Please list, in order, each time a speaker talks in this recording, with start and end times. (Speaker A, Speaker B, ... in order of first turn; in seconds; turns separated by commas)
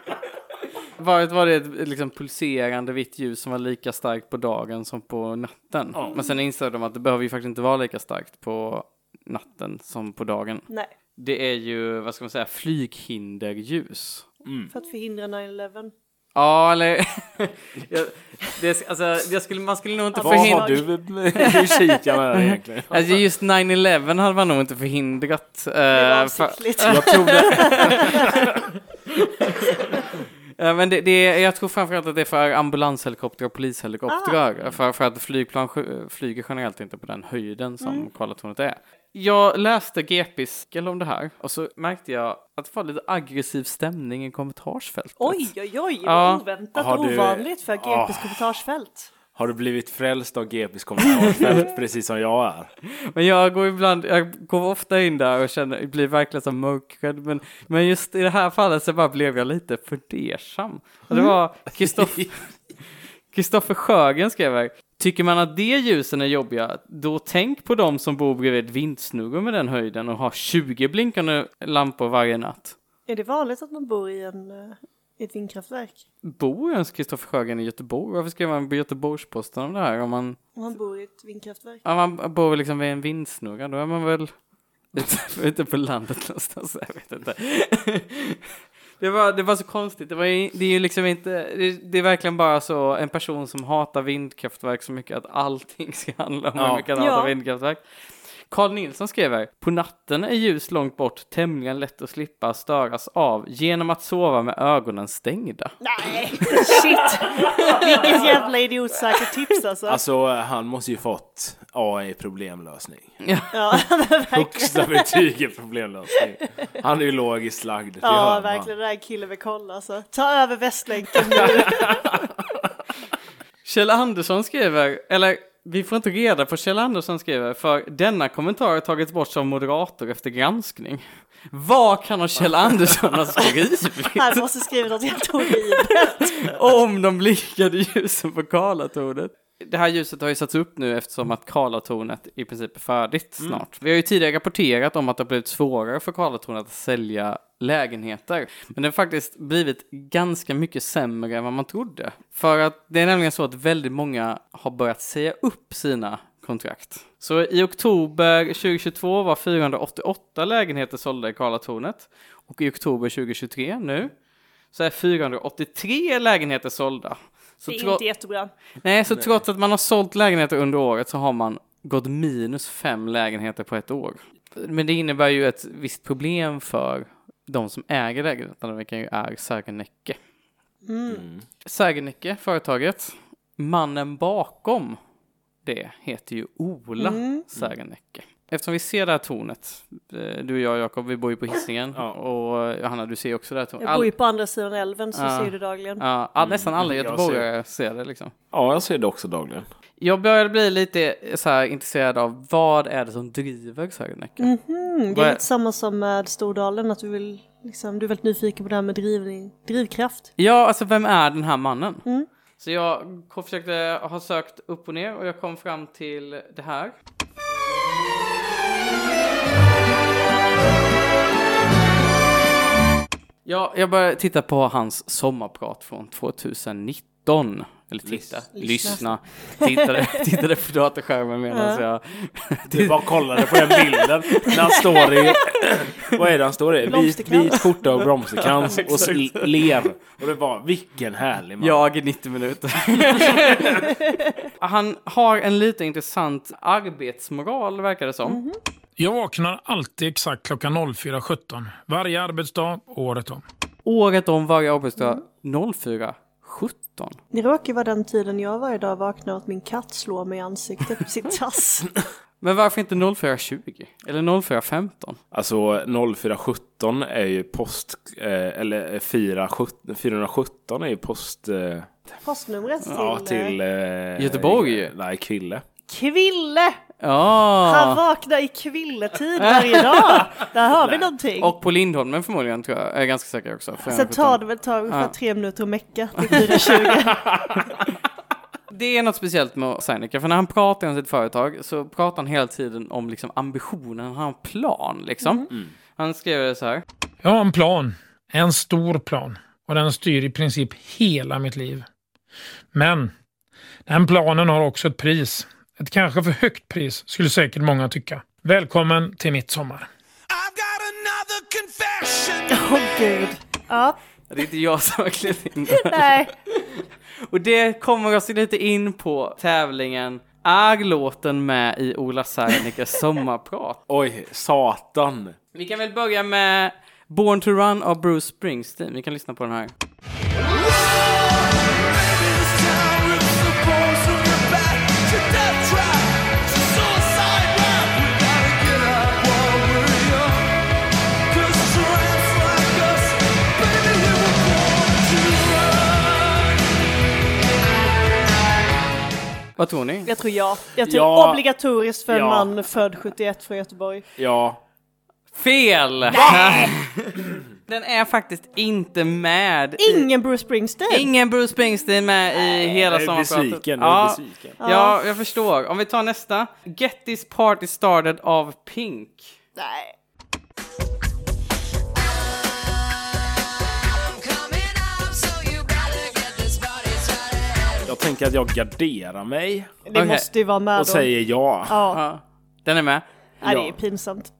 Speaker A: 1.0-14.3, Speaker B: 14.4-14.7, Speaker C: 14.7-15.9, Speaker A: 16.4-20.8, Speaker C: 20.1-20.8, Speaker B: 20.2-23.2, Speaker A: 22.9-28.4, Speaker C: 25.9-28.1, Speaker B: 26.9-28.6, Speaker A: 29.4-29.9, Speaker A: 30.6-45.5, Speaker C: 34.1-34.4, Speaker C: 45.2-49.1, Speaker A: 46.0-46.4, Speaker B: 46.8-48.5, Speaker B: 49.3-52.7, Speaker A: 53.0-62.4, Speaker A: 63.3-72.8, Speaker C: 73.1-76.0, Speaker A: 76.2-80.4, Speaker C: 80.6-81.8, Speaker A: 81.8-84.3, Speaker A: 84.9-88.5, Speaker A: 89.0-97.8, Speaker B: 96.6-96.9, Speaker C: 97.0-97.3, Speaker A: 98.5-105.8, Speaker C: 105.8-110.0, Speaker B: 109.9-113.1, Speaker A: 113.2-113.5, Speaker C: 113.5-115.1, Speaker B: 114.3-118.7, Speaker C: 118.0-121.9, Speaker B: 121.3-122.2, Speaker A: 123.6-134.4, Speaker C: 134.2-136.5, Speaker A: 135.7-164.1, Speaker A: 164.7-168.0, Speaker C: 167.7-168.5, Speaker A: 168.8-180.2, Speaker C: 180.9-181.2, Speaker B: 181.1-181.4, Speaker A: 181.6-185.0, Speaker A: 185.6-194.1, Speaker C: 187.0-187.4, Speaker C: 193.8-196.0, Speaker A: 195.1-198.3, Speaker B: 196.4-197.5, Speaker B: 198.5-199.7, Speaker A: 200.0-204.5, Speaker C: 204.4-210.3, Speaker A: 205.1-205.4, Speaker A: 210.4-212.0, Speaker A: 212.6-216.9, Speaker A: 223.5-233.1, Speaker C: 228.6-229.1, Speaker C: 229.7-230.2, Speaker C: 231.5-231.8, Speaker B: 232.7-241.9, Speaker C: 236.9-237.7, Speaker A: 238.4-239.6, Speaker A: 241.6-243.9, Speaker B: 243.2-243.7, Speaker A: 244.6-248.4, Speaker C: 248.2-248.6, Speaker D: 249.0-253.4, Speaker A: 253.9-257.2, Speaker C: 257.3-261.9, Speaker A: 262.4-265.2, Speaker B: 265.3-272.1, Speaker C: 272.2-273.6, Speaker B: 272.9-275.6, Speaker A: 274.2-274.9, Speaker C: 275.9-276.8, Speaker A: 277.0-278.0, Speaker C: 277.6-281.5, Speaker A: 279.4-280.3, Speaker B: 280.8-281.1, Speaker A: 281.4-285.1, Speaker C: 283.9-287.2, Speaker A: 286.2-286.7, Speaker B: 287.2-287.6, Speaker A: 288.7-296.8, Speaker D: 297.2-301.9, Speaker D: 302.7-303.1, Speaker D: 303.9-309.9, Speaker E: 310.4-312.4, Speaker C: 312.5-314.0, Speaker A: 314.3-323.8, Speaker C: 315.7-316.3, Speaker B: 323.9-325.4, Speaker A: 325.6-329.7, Speaker A: 349.6-350.1, Speaker C: 350.1-354.0, Speaker B: 350.8-351.4, Speaker B: 352.1-352.5, Speaker B: 354.2-354.6, Speaker A: 355.3-360.1, Speaker B: 356.1-356.7, Speaker C: 359.8-361.1, Speaker A: 360.9-369.4, Speaker B: 362.5-364.6, Speaker C: 364.6-365.0, Speaker C: 369.6-369.9, Speaker B: 377.9-379.7, Speaker C: 379.9-381.1, Speaker A: 379.9-380.3, Speaker B: 380.7-381.8, Speaker C: 381.7-382.0, Speaker A: 381.9-383.0, Speaker C: 383.4-384.3, Speaker B: 383.4-383.8